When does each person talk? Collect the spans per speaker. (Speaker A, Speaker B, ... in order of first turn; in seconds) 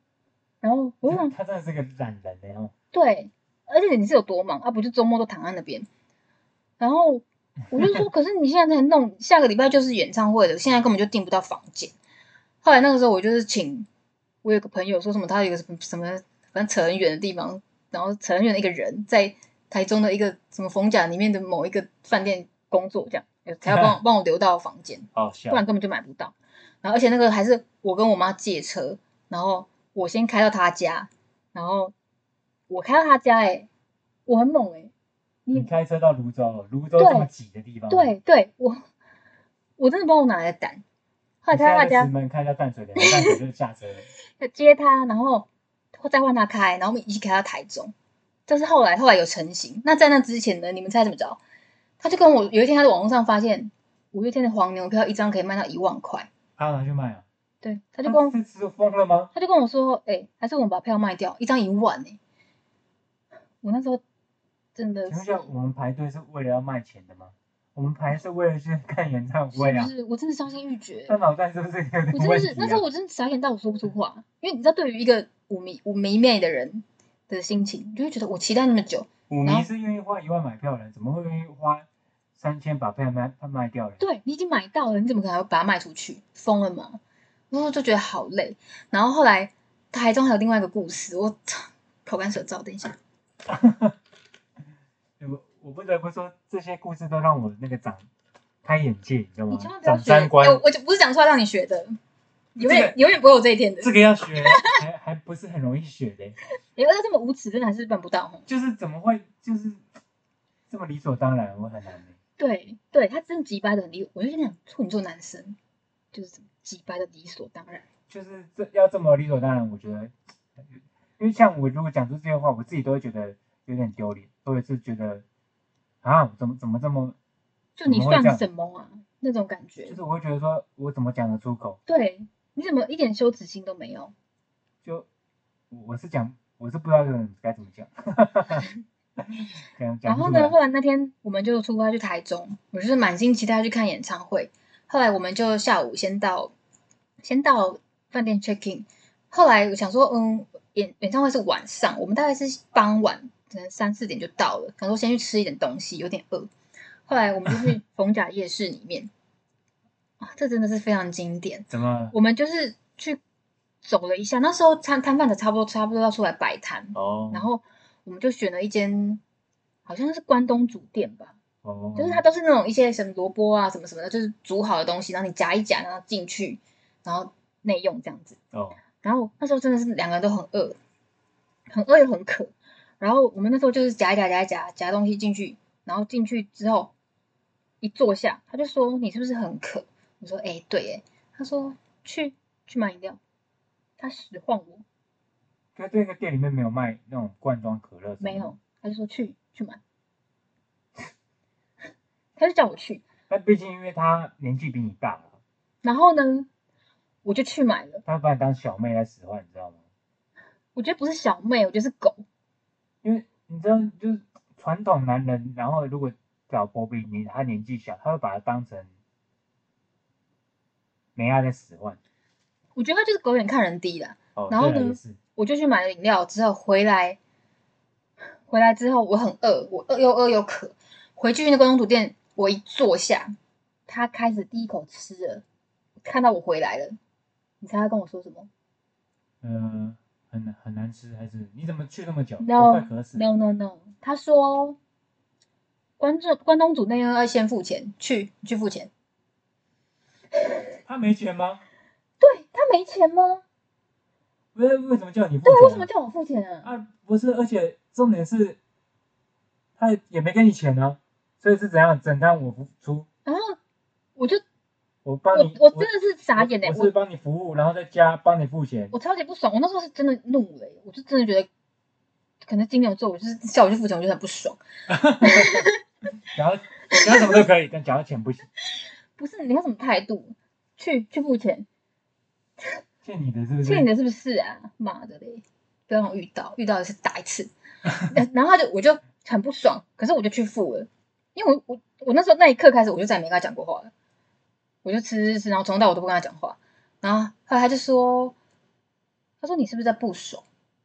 Speaker A: 0.6-1.3, 2.9-5.9, 6.8-11.9, 12.6-13.9, 14.4-31.9, 32.7-33.7, 34.2-34.9, 37.0-37.3, 37.9-38.8, 39.8-40.8, 41.4-42.1, 43.0-43.4, 44.4-47.9, 48.5-51.4, 52.0-56.3, 57.6-58.4, 59.3-62.2, 63.6-64.0, 64.8-65.5, 69.5-71.2, 72.1-79.7, 84.0-87.0, 87.5-93.0, 99.5-101.9, 102.5-104.7, 106.8-108.4, 112.4-115.5, 116.1-117.8, 127.8-130.0, 131.9-134.1, 140.1-146.5, 147.2-156.5, 157.1-159.1, 160.2-163.2, 163.8-169.2, 169.8-171.3, 171.9-178.4, 179.0-180.8, 181.7-186.9, 187.8-193.2, 194.0-194.8, 198.2-199.8, 202.3-203.0, 205.8-206.5, 207.2-208.0, 210.7-212.2, 222.8-227.2, 228.5-233.3, 233.9-235.4, 236.0-237.0, 237.6-238.5, 242.4-244.8, 246.0-248.9, 252.2-253.4, 255.4-256.7, 263.2-263.6, 264.1-264.4, 265.3-266.9, 268.9-271.5, 272.4-274.6, 275.2-275.8, 276.9-277.2, 279.2-281.7, 283.6-287.5, 288.0-293.9, 294.8-298.3, 299.4-300.4
Speaker B: 1.0-2.7, 23.7-24.0, 25.1-25.6, 35.5-38.1, 41.5-44.1, 56.6-57.2, 58.0-59.3, 65.1-69.9, 71.1-72.8, 79.3-84.0, 93.5-94.0, 95.2-98.0, 98.6-100.6, 102.6-102.9, 103.8-106.4, 108.5-109.8, 110.7-112.1, 118.1-120.1, 121.2-125.2, 126.0-127.2, 127.8-128.4, 129.8-131.8, 135.7-138.7, 139.8-140.5, 161.7-162.1, 166.9-167.5, 171.6-172.2, 178.5-178.8, 195.8-198.5, 203.3-205.4, 208.0-209.8, 213.0-218.9, 221.2-222.0, 224.3-225.2, 239.4-243.2, 250.8-251.6, 254.5-255.9, 256.6-258.6, 259.8-263.1, 265.0-268.9, 274.9-275.7, 276.3-278.4, 283.0-283.9